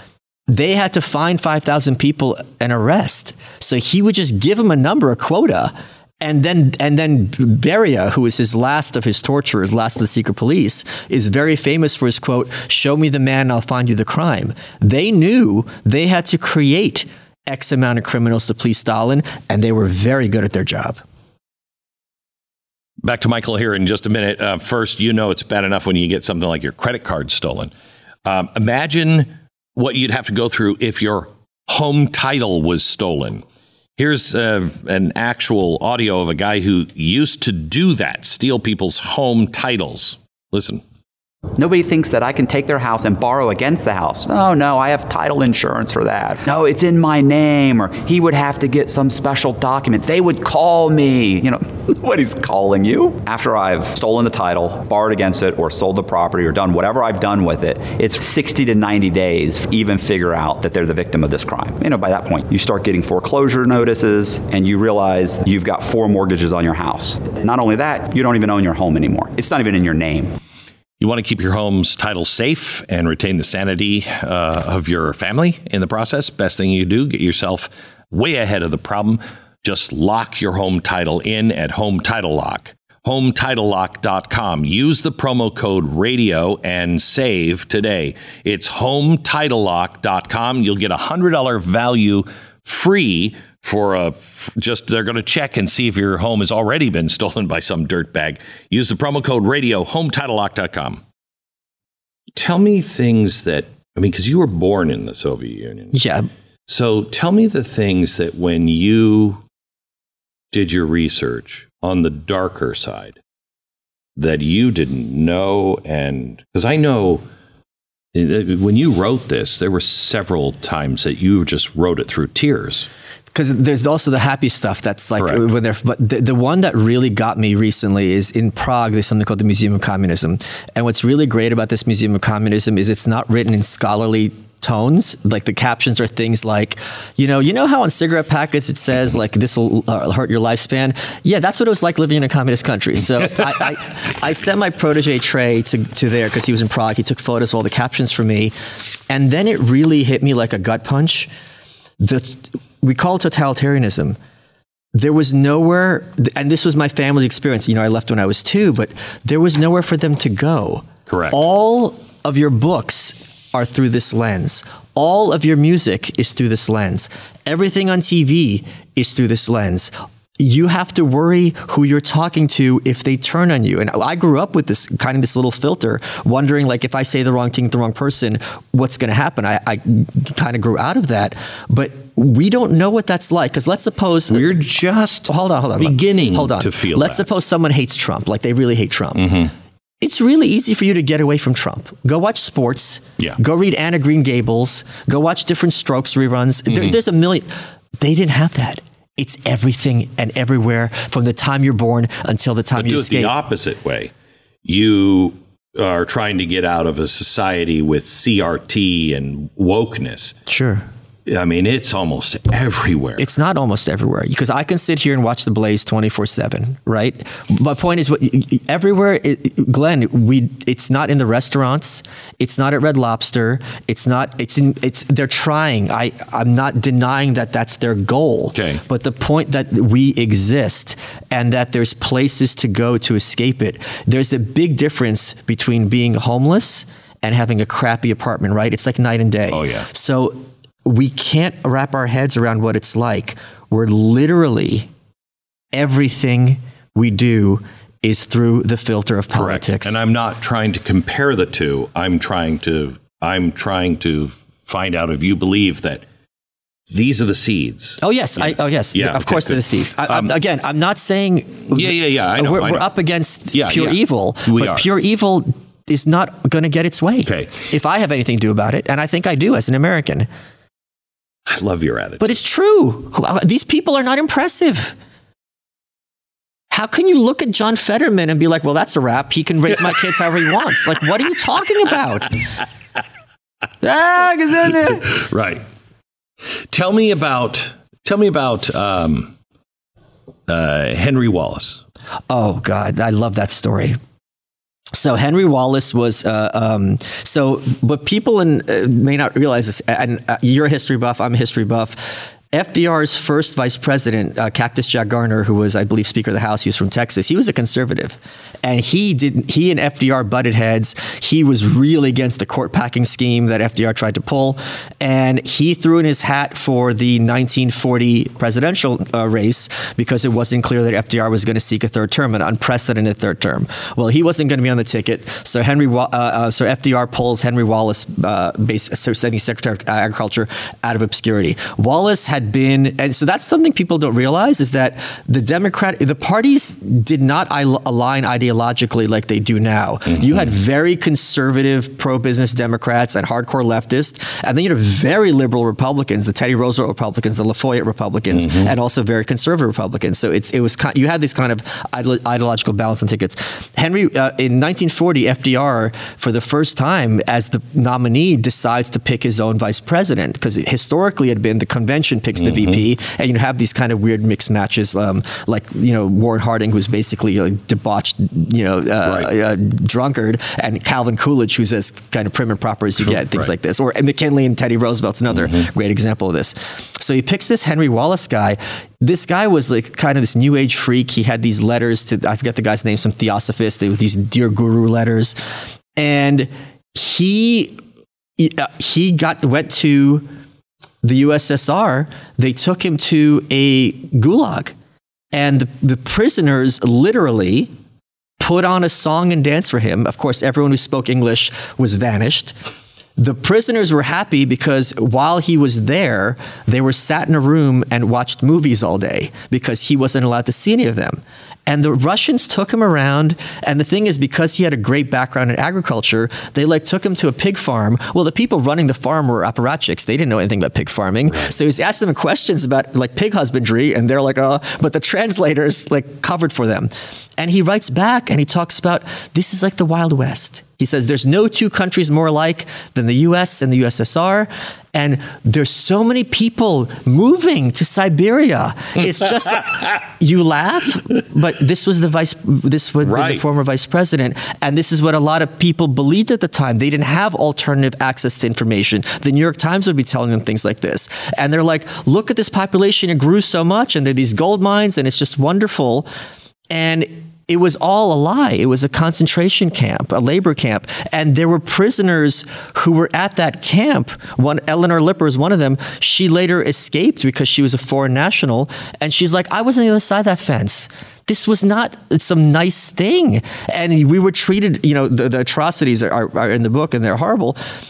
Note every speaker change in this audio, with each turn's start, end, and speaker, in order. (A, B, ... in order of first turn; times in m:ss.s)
0:00.5-0:21.0 A
0:23.0-0:27.7 B
0:28.2-0:33.4 B
0:34.0-0:40.8 B
0:41.6-1:10.4 C
1:11.0-1:41.0 B
1:42.3-1:46.0 B
1:45.9-1:46.3 A
1:46.7-1:49.4 B
1:50.5-1:53.2 B
1:54.2-1:57.2 B
1:58.1-2:02.9 B
2:03.3-2:28.5 A
2:05.2-2:05.4 B
2:29.1-2:31.3 A
2:32.0-2:34.2 A
2:34.9-3:04.5 A
2:41.1-2:41.4 B
3:04.3-3:07.2 B
3:05.3-3:09.4 A
3:09.2-3:09.5 B
3:10.0-3:17.5 A
3:16.7-3:16.9 B
3:18.0-3:23.3 A
3:22.8-3:24.1 B
3:24.6-3:30.4 B
3:30.5-3:30.9 A
3:31.2-3:33.2 B
3:33.2-4:04.9 A
3:48.5-3:48.8 B
3:59.5-3:59.9 B
4:05.7-4:10.0 A
4:09.3-4:16.0 B
4:16.9-4:20.3 B
4:18.0-4:30.3 A
4:21.7-4:22.8 B
4:23.5-4:24.8 B
4:27.2-4:27.6 B
4:31.5-4:32.4 B
4:32.2-4:34.9 A
4:36.7-4:42.4 A
4:43.8-4:45.1 A
4:44.9-4:45.6 B
4:46.7-4:49.3 B
4:50.5-4:51.8 B
4:52.3-4:54.0 A
4:54.9-6:25.4 A
5:40.1-5:40.5 B
5:48.3-5:48.7 B
6:02.4-6:02.8 B
6:13.0-6:13.5 B
6:15.3-6:15.6 B
6:26.0-6:27.8 A
6:28.4-6:30.2 A
6:31.0-6:34.7 A
6:35.3-6:37.7 A
6:38.4-6:42.5 A
6:43.2-7:36.1 A
7:23.0-7:23.4 B
7:36.7-7:57.6 A